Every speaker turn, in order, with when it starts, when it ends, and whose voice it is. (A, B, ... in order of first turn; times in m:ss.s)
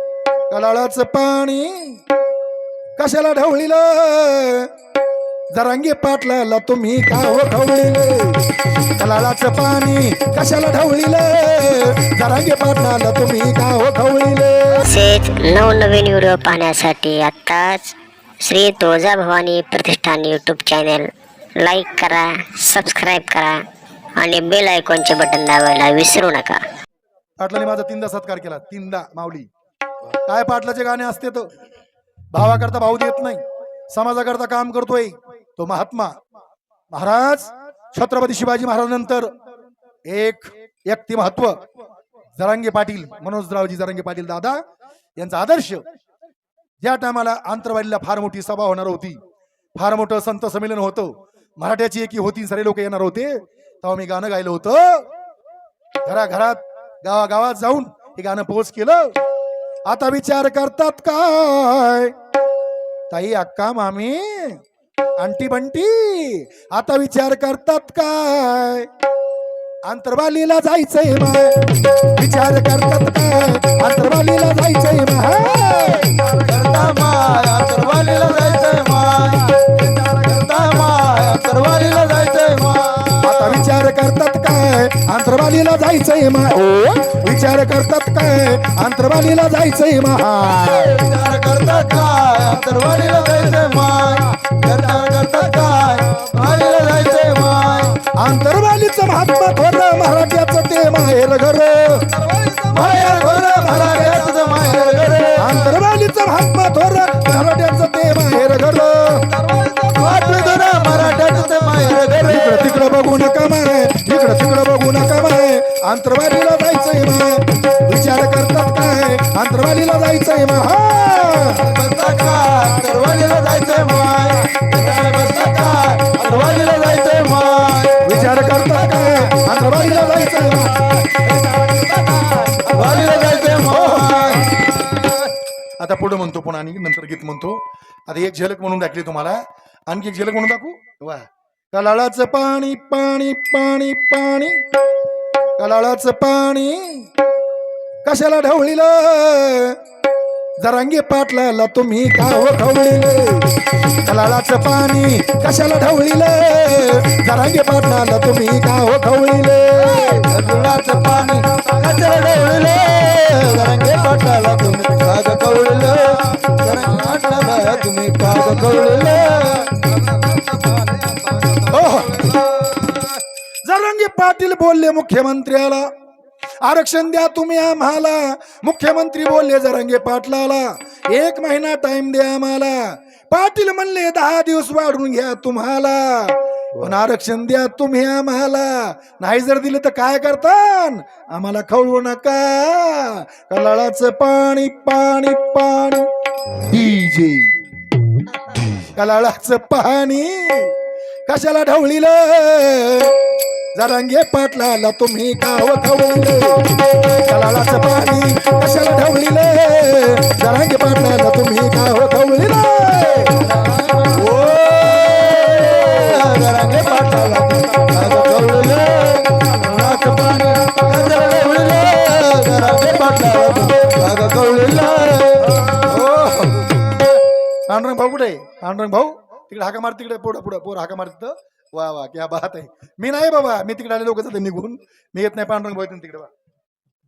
0:00.5-0:02.0 A
0:03.0-0:04.7 A
0:05.5-0:08.4 A
0:09.0-0:14.8 A
0:14.9-0:21.1 B
0:21.6-0:23.6 B
0:24.2-0:26.6 B
0:27.4-0:29.5 A
0:30.2-0:31.5 A
0:32.3-0:36.1 A
0:36.9-0:39.3 A
0:40.1-0:41.6 A
0:42.4-0:44.6 A
0:45.2-0:45.8 A
0:46.8-0:49.2 A
0:49.8-0:55.0 A
0:56.0-0:59.0 A
0:59.9-1:02.1 A
1:03.1-1:04.6 A
1:05.2-1:08.9 A
1:09.9-1:16.2 A
1:16.3-1:23.6 C
1:23.2-1:30.9 A
1:30.6-1:38.0 C
1:38.1-1:42.1 A
1:42.4-1:45.6 C
1:42.7-1:44.3 A
1:45.4-1:49.3 A
1:49.4-1:52.9 C
1:52.2-2:01.6 A
2:01.6-2:08.1 C
2:08.0-2:10.8 A
2:11.1-2:15.0 C
2:13.3-2:14.4 A
2:15.8-2:19.4 A
2:19.9-2:24.6 A
2:25.6-2:27.1 A
2:28.0-2:29.8 A
2:30.6-2:40.3 A
2:40.3-2:51.7 C
2:51.7-2:52.3 A
2:53.6-2:55.9 A
2:56.6-3:16.1 A
3:16.7-3:17.5 A
3:18.9-3:20.7 A
3:21.3-3:23.1 A
3:23.8-3:33.4 A
3:33.7-3:46.9 C
3:47.7-3:56.3 A